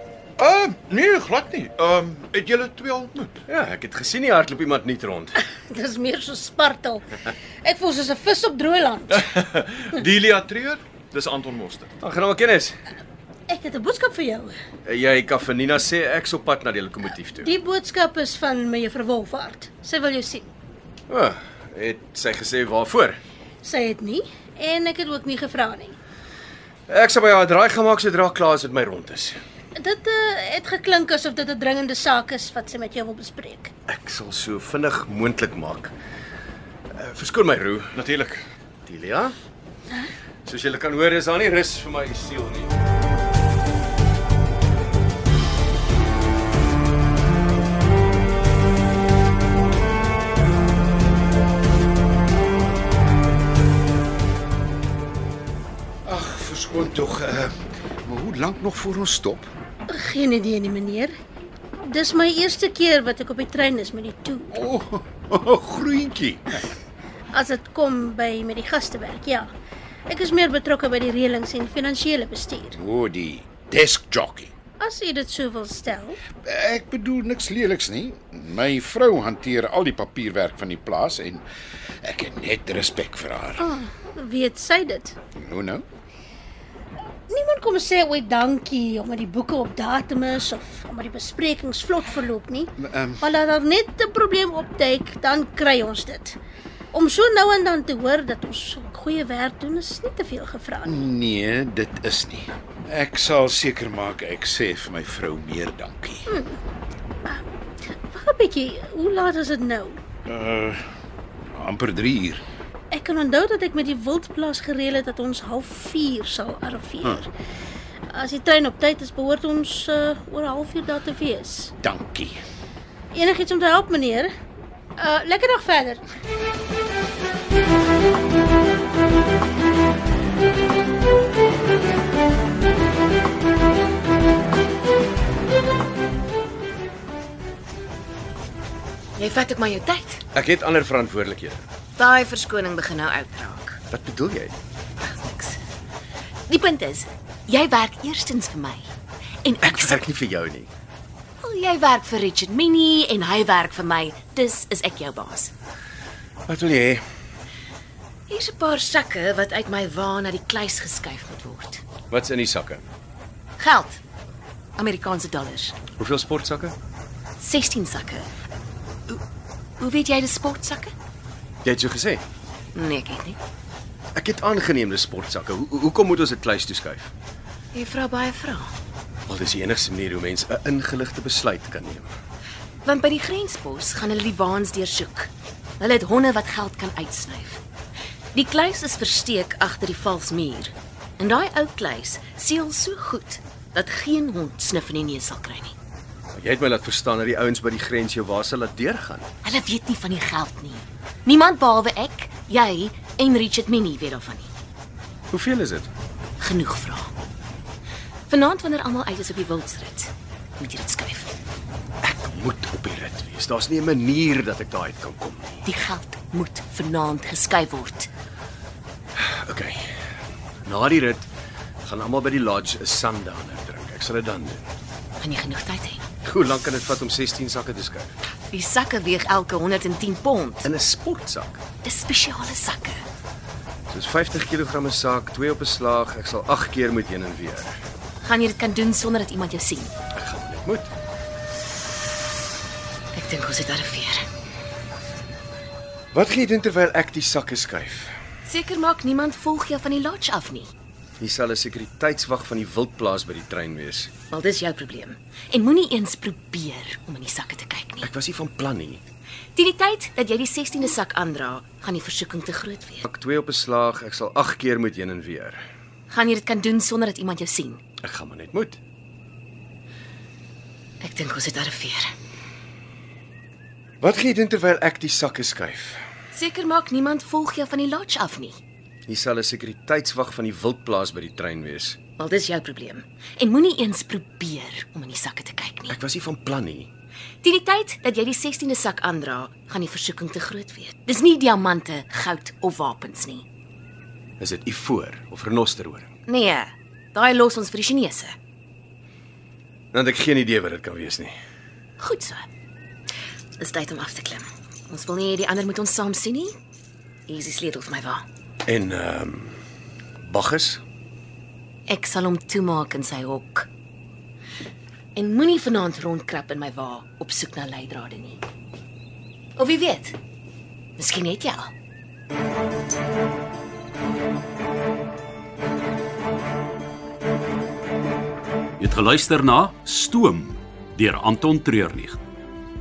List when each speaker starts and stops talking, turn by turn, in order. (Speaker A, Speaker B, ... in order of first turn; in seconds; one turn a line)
Speaker A: 0.4-3.4
Speaker B: 3.5-5.4
Speaker C: 5.7-9.2
Speaker A: 9.3-11.9
Speaker B: 12.0-12.8
Speaker C: 13.5-14.5
Speaker B: 14.8-17.5
Speaker C: 17.4-20.5
Speaker B: 21.1-23.2
Speaker C: 23.6-25.9
Speaker B: 26.9-29.4
Speaker C: 29.8-33.7
Speaker B: 33.9-35.9
Speaker B: 36.9-38.0
Speaker A: 37.9-38.4
Speaker B: 38.8-39.3
Speaker B: 40.4-42.7
Speaker D: 56.0-59.5
Speaker C: 59.9-61.1
Speaker C: 61.8-64.5
Speaker D: 64.5-66.6
Speaker C: 67.3-69.5
Speaker C: 70.1-72.7
Speaker D: 72.7-74.5
Speaker C: 74.8-76.2
Speaker D: 76.4-81.4
Speaker D: 82.0-83.7
Speaker C: 83.6-85.1
Speaker D: 85.3-85.8
Speaker C: 87.3-96.4
Speaker D: 92.8-93.2
Speaker C: 96.9-100.9
Speaker D: 100.8-106.3
Speaker C: 106.3-106.5
Speaker C: 108.1-110.0
Speaker D: 110.2-110.8
Speaker D: 111.5-112.4
Speaker C: 112.9-117.3
Speaker C: 118.1-121.7
Speaker D: 121.8-122.4
Speaker C: 123.1-124.3
Speaker C: 125.0-126.0
Speaker E: 139.2-140.2
Speaker B: 140.3-141.6
Speaker E: 142.0-143.8
Speaker B: 143.9-144.5
Speaker E: 145.0-145.6
Speaker E: 146.5-148.9
Speaker E: 149.4-150.0
Speaker B: 149.6-150.7
Speaker E: 151.4-155.5
Speaker B: 156.5-157.0
Speaker E: 158.3-161.8
Speaker B: 162.1-162.8
Speaker E: 163.6-164.0
Speaker E: 164.8-165.8
Speaker B: 166.0-166.7
Speaker E: 167.4-168.2
Speaker E: 169.8-170.9
Speaker B: 171.6-172.2
Speaker E: 172.7-173.4
Speaker B: 174.1-177.1
Speaker E: 177.7-178.7
Speaker B: 179.3-182.1
Speaker E: 182.8-187.6
Speaker E: 188.3-195.7
Speaker B: 196.3-199.3
Speaker E: 199.4-204.5
Speaker B: 205.3-205.9
Speaker E: 206.4-207.1
Speaker E: 208.3-211.3
Speaker B: 212.0-215.6
Speaker E: 215.6-218.1
Speaker B: 219.2-219.9
Speaker B: 220.6-221.3
Speaker B: 221.8-224.7
Speaker E: 225.2-226.0
Speaker B: 226.2-228.1
Speaker E: 228.5-230.7
Speaker B: 230.6-231.6
Speaker E: 231.8-233.0
Speaker B: 233.9-237.7
Speaker E: 238.2-239.9
Speaker B: 240.1-240.9
Speaker E: 243.1-244.2
Speaker B: 246.1-248.1
Speaker E: 248.4-250.7
Speaker B: 251.2-254.1
Speaker E: 254.3-258.1
Speaker B: 258.0-259.0
Speaker E: 259.5-263.0
Speaker B: 263.0-265.6
Speaker E: 266.1-267.8
Speaker B: 268.0-268.8
Speaker E: 271.0-272.1
Speaker B: 274.0-276.0
Speaker E: 276.3-278.6
Speaker B: 279.1-282.0
Speaker E: 282.2-285.9
Speaker B: 285.9-286.9
Speaker E: 287.4-293.4
Speaker B: 294.4-296.1
Speaker E: 296.3-298.3
Speaker B: 299.9-301.3
Speaker E: 302.0-302.4
Speaker E: 303.6-306.6
Speaker E: 307.3-308.2
Speaker B: 308.6-309.6
Speaker B: 310.2-310.8
Speaker E: 311.9-313.7
Speaker E: 315.1-318.4
Speaker E: 319.6-320.2
Speaker E: 321.0-321.7
Speaker F: 328.8-332.2